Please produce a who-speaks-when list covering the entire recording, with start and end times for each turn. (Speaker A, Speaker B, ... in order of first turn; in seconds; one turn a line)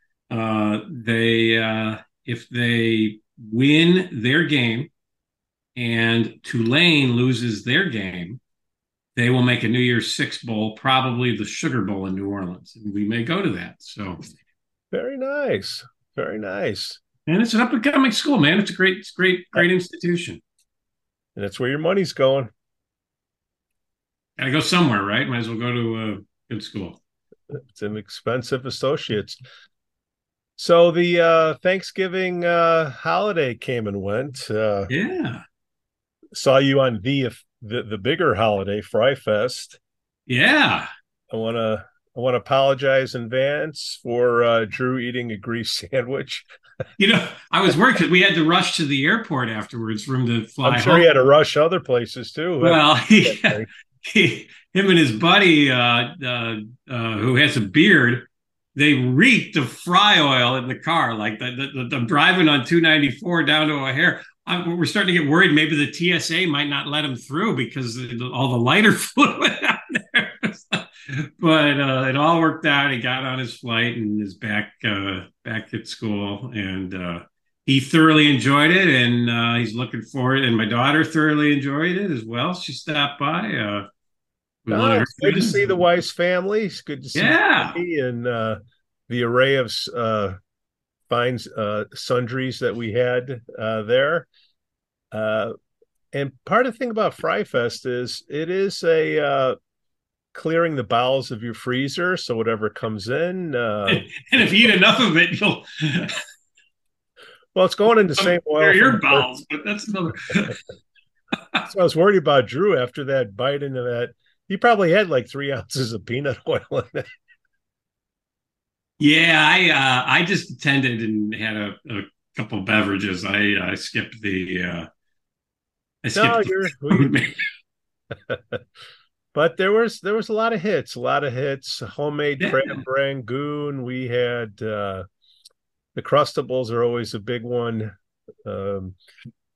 Speaker A: 0.3-4.9
Speaker A: 5.8-8.4
Speaker A: 9.2-14.2
Speaker B: 14.9-17.0
Speaker A: 17.3-20.4
Speaker B: 21.4-22.5
Speaker A: 24.4-27.0
Speaker B: 27.5-29.4
Speaker B: 30.6-34.9
Speaker A: 34.9-35.4
Speaker B: 36.3-39.8
Speaker A: 40.3-40.9
Speaker B: 41.3-46.5
Speaker A: 47.0-51.1
Speaker B: 50.6-53.7
Speaker A: 52.6-83.8
Speaker A: 84.7-85.8
Speaker B: 84.7-90.4
Speaker A: 87.1-87.8
Speaker B: 91.1-94.3
Speaker B: 95.1-95.5
Speaker B: 96.1-99.5
Speaker B: 100.3-104.7
Speaker A: 103.9-106.2
Speaker B: 107.5-109.3
Speaker A: 108.2-110.6
Speaker B: 111.7-117.1
Speaker A: 119.0-124.9
Speaker A: 126.0-127.3
Speaker B: 126.1-127.2
Speaker B: 128.3-128.6
Speaker B: 129.3-135.1
Speaker A: 132.4-132.8
Speaker B: 135.9-137.9
Speaker B: 138.4-139.0